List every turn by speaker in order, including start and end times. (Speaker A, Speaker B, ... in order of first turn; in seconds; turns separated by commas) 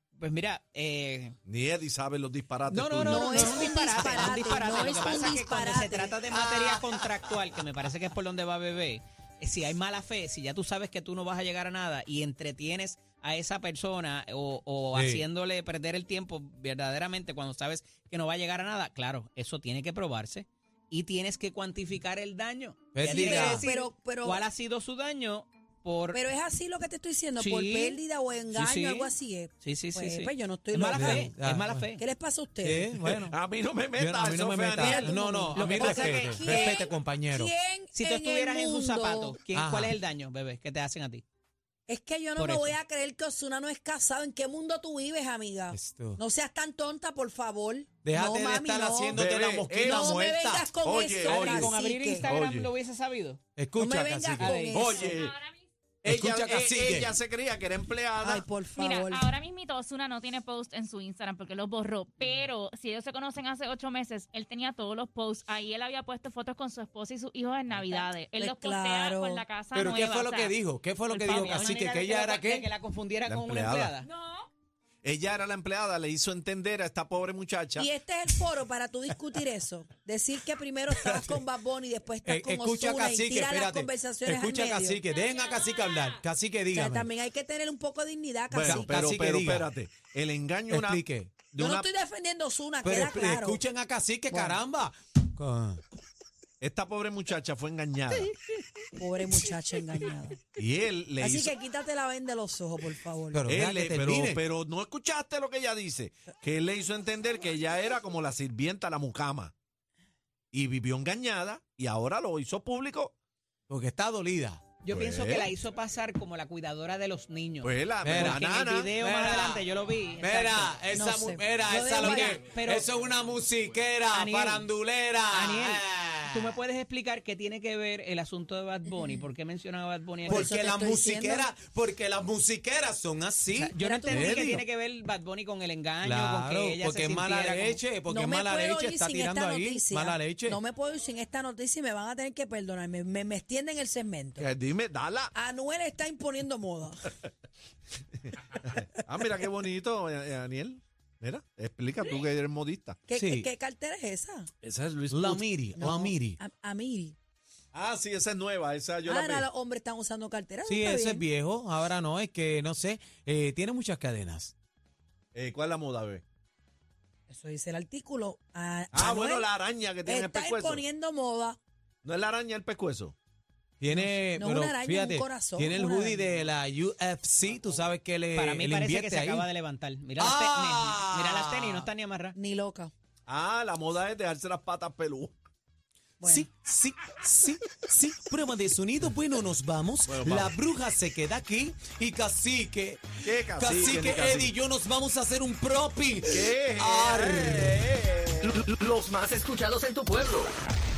Speaker A: 0.2-1.4, Speaker B: 1.4-4.4, Speaker A: 2.7-26.2, Speaker C: 3.0-6.2, Speaker D: 6.3-7.6, Speaker D: 14.9-15.2, Speaker D: 22.9-23.7, Speaker C: 23.1-24.4, Speaker C: 26.1-31.3, Speaker A: 27.4-28.0, Speaker A: 28.5-32.0, Speaker D: 30.9-31.9, Speaker C: 32.0-32.9, Speaker D: 32.6-33.4, Speaker B: 32.9-35.1, Speaker D: 34.0-37.5, Speaker C: 34.8-39.4, Speaker A: 35.5-36.9, Speaker A: 37.9-41.2, Speaker D: 39.5-40.0, Speaker C: 41.9-49.2, Speaker A: 42.4-42.7, Speaker D: 45.7-46.2, Speaker D: 48.0-50.6, Speaker B: 49.1-52.7, Speaker C: 49.8-52.3, Speaker A: 51.2-53.4, Speaker D: 53.6-54.7, Speaker C: 53.8-55.2, Speaker A: 54.4-54.8, Speaker B: 54.7-55.4, Speaker E: 54.8-55.5, Speaker B: 56.0-58.4, Speaker D: 56.1-57.1, Speaker C: 58.2-59.3, Speaker E: 58.8-72.0, Speaker C: 68.0-69.4, Speaker D: 69.7-72.7, Speaker A: 71.3-74.0, Speaker B: 73.2-73.9, Speaker E: 74.0-74.5, Speaker B: 75.0-77.9, Speaker C: 77.8-85.0, Speaker D: 82.2-87.1, Speaker E: 85.1-86.2, Speaker C: 86.7-89.1, Speaker B: 88.5-91.9, Speaker D: 88.6-89.7, Speaker D: 90.7-91.4, Speaker C: 91.6-93.6, Speaker D: 92.8-95.8, Speaker C: 94.3-94.6, Speaker B: 96.6-98.3, Speaker C: 99.0-100.4, Speaker B: 100.6-101.5, Speaker C: 101.2-103.4, Speaker D: 103.3-104.4, Speaker B: 103.5-109.5, Speaker B: 110.5-113.1, Speaker D: 113.7-114.6, Speaker A: 114.8-120.8, Speaker B: 114.9-115.5, Speaker B: 117.6-118.9, Speaker D: 118.0-118.4, Speaker D: 118.9-119.7, Speaker D: 120.2-126.6, Speaker C: 120.9-122.4, Speaker A: 121.8-122.8, Speaker A: 124.1-124.7, Speaker A: 125.3-130.5, Speaker C: 130.2-131.5, Speaker D: 130.3-134.7, Speaker A: 133.6-137.8, Speaker C: 133.8-134.4, Speaker D: 136.0-140.6, Speaker C: 138.1-144.5, Speaker B: 144.4-145.3, Speaker C: 145.3-147.1, Speaker B: 148.5-153.0, Speaker C: 153.1-154.5, Speaker D: 153.2-153.5, Speaker B: 154.6-155.4, Speaker D: 155.1-156.4, Speaker C: 155.7-157.2, Speaker B: 157.7-159.5, Speaker C: 159.1-161.2, Speaker D: 160.7-164.5, Speaker B: 165.3-166.2, Speaker C: 167.3-169.5, Speaker B: 168.9-170.8, Speaker C: 170.1-171.6, Speaker B: 172.0-173.2, Speaker D: 173.8-179.5, Speaker C: 173.9-176.3, Speaker A: 178.3-182.3, Speaker D: 180.2-181.9, Speaker C: 182.3-182.9, Speaker B: 183.3-185.3, Speaker C: 186.2-186.5, Speaker D: 186.2-197.8, Speaker B: 190.1-190.5, Speaker B: 193.2-194.5, Speaker B: 196.3-198.6, Speaker F: 198.5-200.5